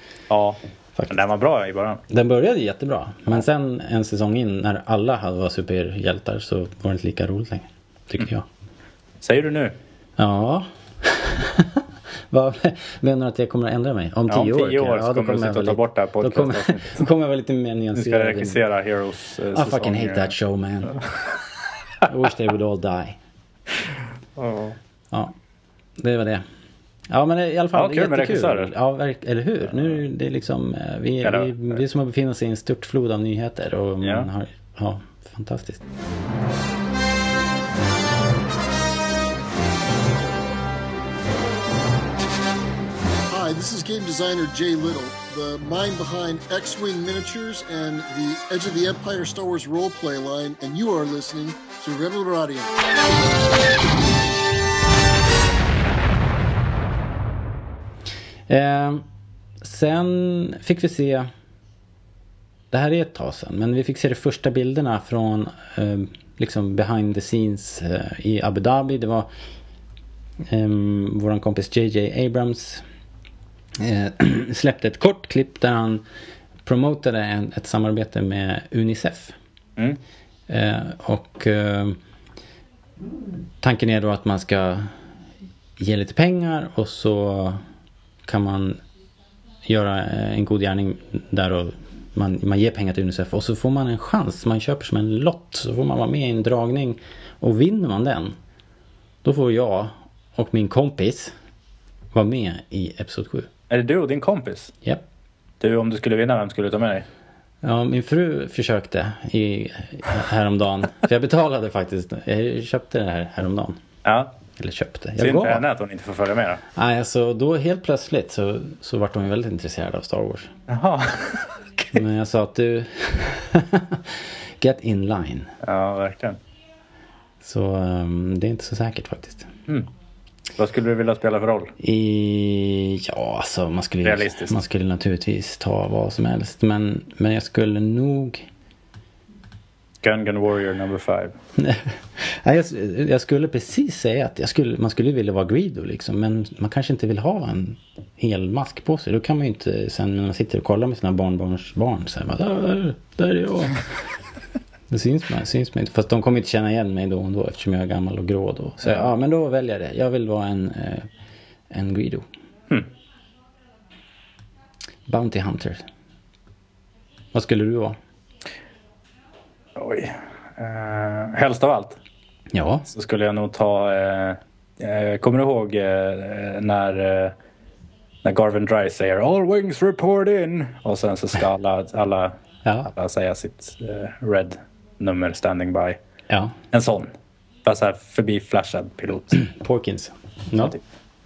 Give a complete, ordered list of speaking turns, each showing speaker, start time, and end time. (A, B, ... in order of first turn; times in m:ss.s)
0:00.3-0:02.0 A
0:01.0-0:01.2 B
0:02.1-0:08.4 B
0:09.2-0:09.8 A
0:10.2-0:18.6 B
0:14.3-0:17.0 A
0:17.9-0:20.3 A
0:19.5-0:21.0 B
0:20.9-0:21.4 A
0:22.0-0:23.2 B
0:24.4-0:24.8 A
0:26.0-0:26.4 B
0:27.1-0:35.8 B
0:27.7-0:28.7 A
0:31.2-0:31.5 A
0:34.0-0:34.3 A
0:43.3-0:52.7 C
0:58.5-0:59.0 B
0:59.6-1:01.3 B
1:02.7-1:09.3 B
1:10.4-1:12.8 B
1:13.8-1:16.0 B
1:16.6-1:19.3 B
1:20.5-1:22.0 B
1:23.6-1:24.9 B
1:25.8-1:27.6 B
1:28.2-1:28.8 B
1:29.6-1:38.4 B
1:39.2-1:41.3 B
1:42.1-1:43.5 B
1:43.7-1:44.7 A
1:45.6-1:47.0 A
1:47.6-1:53.8 B
1:54.0-1:54.4 A
1:54.6-1:55.6 B
1:55.2-1:56.6 A
1:56.7-2:00.5 B
2:00.7-2:02.0 A
2:01.9-2:05.5 B
2:05.6-2:06.4 A
2:07.4-2:09.5 B
2:10.6-2:11.7 A
2:11.8-2:18.5 B
2:14.0-2:14.5 A
2:20.0-2:21.3 A
2:21.6-2:33.8 B
2:34.9-2:41.1 B
2:41.7-2:42.2 B
2:45.1-2:45.8 B
2:47.3-2:48.0 B
2:49.8-2:52.0 A
2:52.5-2:52.9 B
2:52.9-2:57.3 A
2:58.2-3:02.3 A
3:02.6-3:02.9 B
3:02.9-3:06.0 A
3:06.3-3:06.6 B
3:06.7-3:07.1 A
3:07.6-3:09.4 A
3:09.4-3:10.8 B